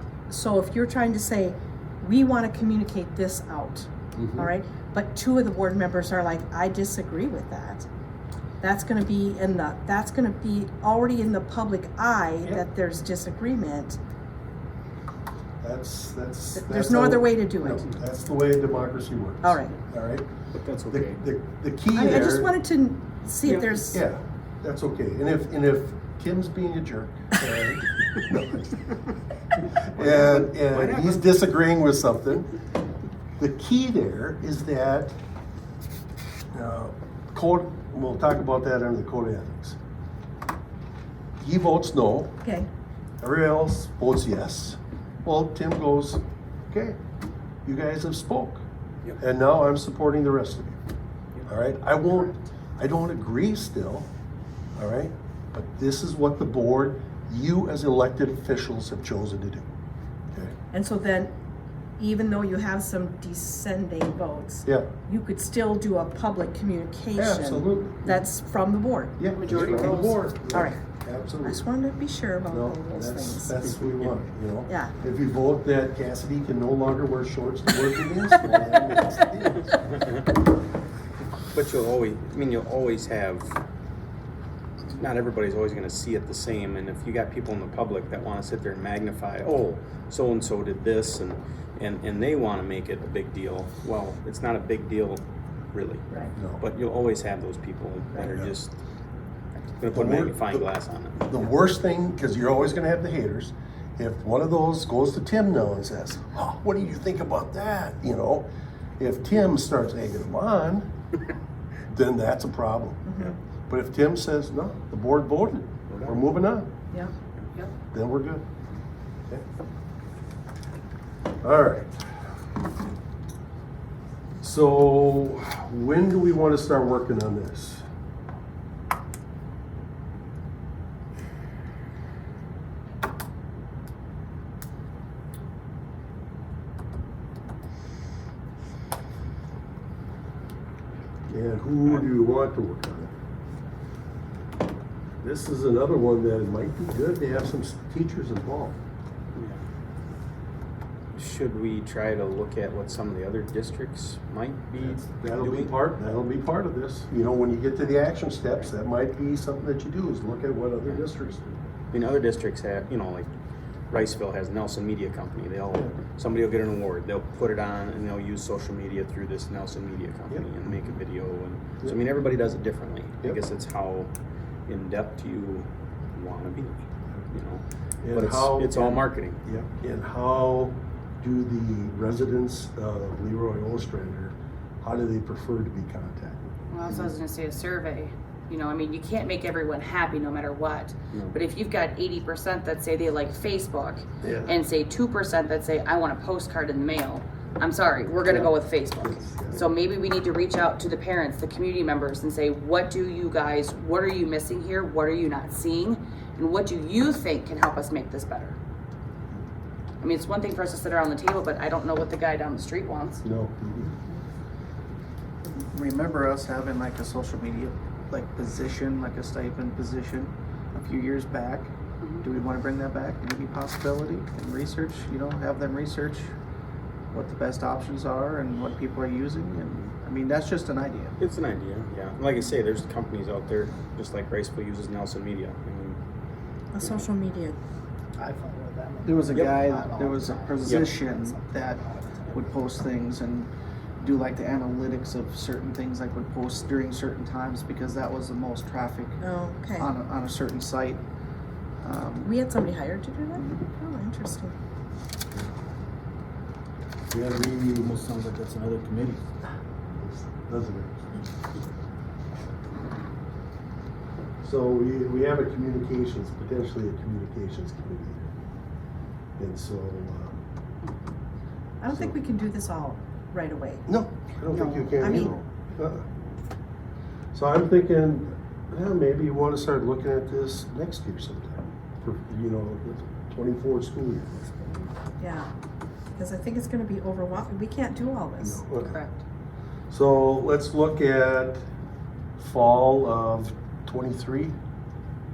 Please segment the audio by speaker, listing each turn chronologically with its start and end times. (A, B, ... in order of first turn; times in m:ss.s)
0:00.3-0:07.9 A
0:04.1-0:04.5 B
0:08.6-0:14.0 A
0:15.6-0:20.3 B
0:16.5-0:17.9 A
0:19.4-0:19.8 A
0:20.5-0:21.3 C
0:20.9-0:22.5 B
0:22.0-0:24.0 A
0:23.9-0:28.8 B
0:29.8-0:32.5 B
0:30.0-0:31.3 C
0:33.4-0:35.2 B
0:36.5-0:39.8 B
0:41.4-0:42.4 B
0:42.4-0:42.7 A
0:43.2-0:47.0 B
0:47.6-0:48.6 B
0:49.2-0:50.8 B
0:51.5-0:54.1 B
0:54.8-0:59.7 B
1:00.7-1:01.3 A
1:02.0-1:09.2 A
1:07.2-1:08.2 B
1:09.2-1:11.6 B
1:09.2-1:10.3 D
1:09.6-1:09.9 C
1:10.5-1:10.8 A
1:11.4-1:13.8 A
1:12.5-1:19.8 B
1:14.7-1:14.9 A
1:19.8-1:20.2 C
1:21.5-1:23.6 C
1:24.9-1:36.1 C
1:36.4-1:36.6 B
1:36.6-1:38.8 C
1:38.2-1:38.5 B
1:39.8-1:41.5 C
1:39.9-1:40.7 B
1:41.2-1:48.5 B
1:49.0-1:50.9 B
1:51.9-1:53.1 B
1:53.1-1:53.4 A
1:53.7-1:56.7 B
1:55.9-1:56.2 C
1:57.9-1:58.4 B
2:01.4-2:02.1 B
2:04.4-2:07.8 B
2:21.3-2:23.1 B
2:25.2-2:28.8 B
2:29.4-2:29.6 C
2:31.1-2:35.8 C
2:34.8-2:41.6 B
2:41.9-2:43.3 C
2:43.9-2:54.1 C
2:54.7-2:59.4 C
2:58.0-3:06.5 B
3:06.7-3:28.6 D
3:14.2-3:14.6 B
3:18.2-3:19.7 B
3:30.0-3:33.2 D
3:33.2-3:33.9 B
3:35.5-3:41.7 E
3:42.2-3:46.3 E
3:47.1-3:51.2 E
3:51.2-3:56.0 C
3:56.8-3:57.6 A
3:56.8-3:57.1 C
3:58.2-4:02.4 F
3:59.0-4:03.5 E
3:59.3-3:59.7 C
4:00.6-4:00.9 C
4:04.0-4:09.2 E
4:09.2-4:09.9 A
4:09.8-4:11.0 E
4:11.8-4:12.3 E
4:12.2-4:14.5 A
4:17.1-4:18.0 B
4:17.7-4:19.2 F
4:20.0-4:21.1 B
4:24.4-4:28.3 B
4:29.4-4:30.4 B
4:31.8-4:33.9 A
4:31.9-4:32.2 B
4:33.9-4:36.0 B
4:34.5-4:34.9 D
4:35.0-4:35.3 A
4:37.3-4:44.3 B
4:45.2-4:45.5 A
4:46.2-4:48.6 A
4:48.4-4:49.0 B
4:48.8-4:49.2 D
4:49.9-4:51.6 B
4:52.4-4:54.6 B